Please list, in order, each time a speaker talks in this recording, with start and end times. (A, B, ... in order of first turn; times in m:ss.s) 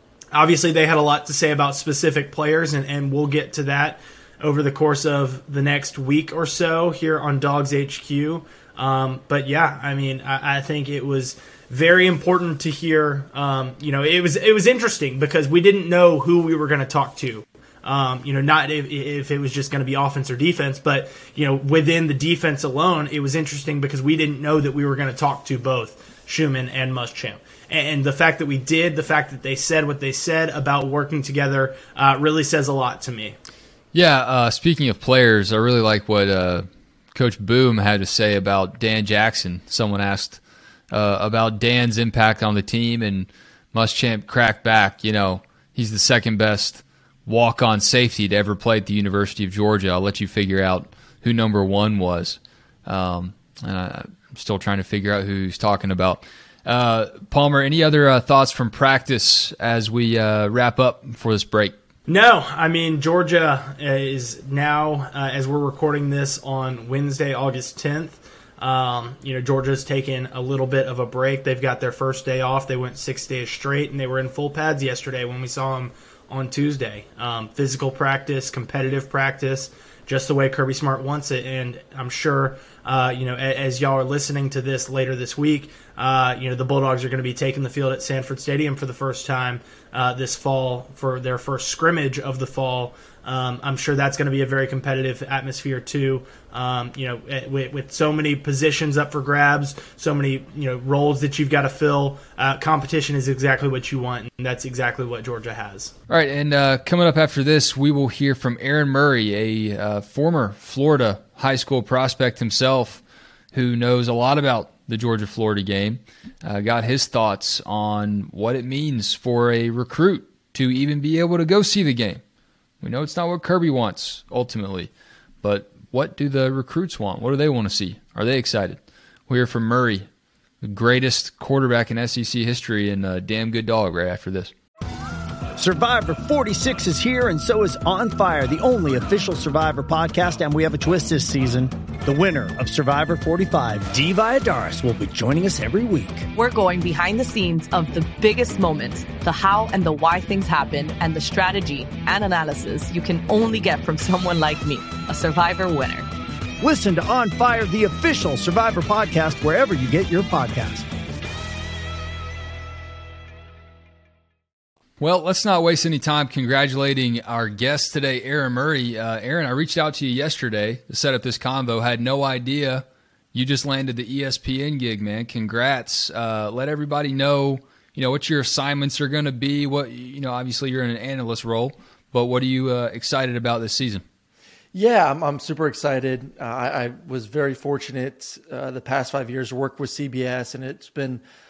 0:00.3-0:33.4 A
0:33.9-1:01.8 B
1:02.1-1:45.9 A
1:46.1-2:02.2 B
2:02.8-2:04.9 B
2:05.4-2:10.1 B
2:10.6-2:14.5 B
2:15.6-2:26.3 C
2:26.3-2:36.1 D
2:36.6-2:40.9 C
2:45.0-3:04.0 B
3:04.7-3:11.2 E